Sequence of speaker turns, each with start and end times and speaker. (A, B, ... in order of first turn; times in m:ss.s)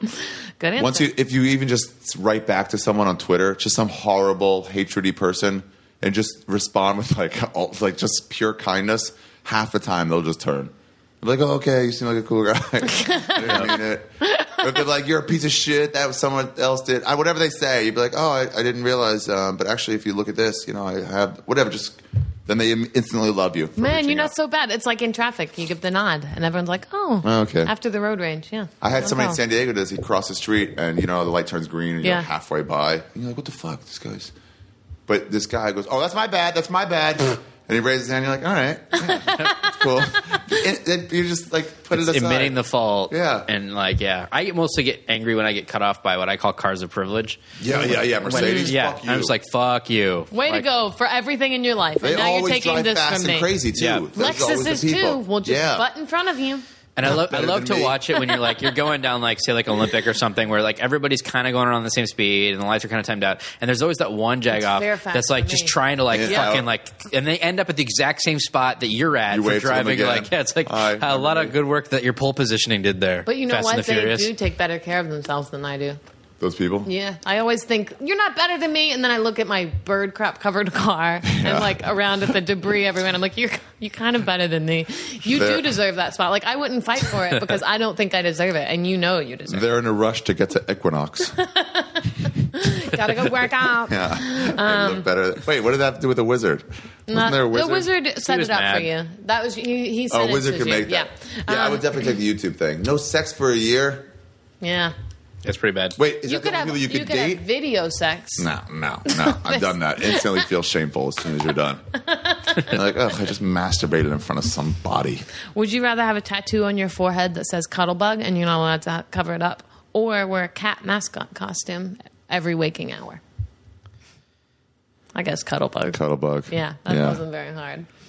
0:00.2-0:01.1 A
0:00.8-0:24.3 B
0:12.9-0:13.7 A
0:14.3-0:14.6 A
0:23.8-0:29.4 A
0:27.2-0:27.7 B
0:28.8-0:34.3 B
0:32.0-0:32.3 A
0:35.1-0:42.6 B
0:41.9-0:50.7 C
0:43.1-0:43.5 B
0:47.6-0:49.3 B
0:48.3-0:48.7 A
0:50.3-0:53.5 A
0:52.0-0:55.9 B
0:53.8-0:54.1 C
0:54.2-0:56.6 A
0:57.0-1:14.3 C
0:57.0-0:58.2 B
1:04.5-1:06.5 A
1:06.1-1:06.7 B
1:09.3-1:11.6 B
1:13.3-1:16.0 A
1:16.4-1:16.9 B
1:16.8-1:29.7 A
1:21.3-1:21.9 B
1:25.3-1:25.8 B
1:29.5-1:31.4 B
1:31.3-1:35.1 A
1:33.8-1:37.9 B
1:37.1-1:42.0 A
1:38.2-1:38.9 C
1:40.1-1:44.1 B
1:44.6-1:44.9 A
1:45.4-1:46.0 C
1:46.0-1:47.4 B
1:46.2-1:48.5 A
1:48.4-1:51.8 B
1:49.0-1:50.4 A
1:52.0-1:52.8 A
1:52.6-1:55.3 B
1:55.5-2:03.2 A
2:05.2-2:07.9 A
2:05.9-2:07.2 B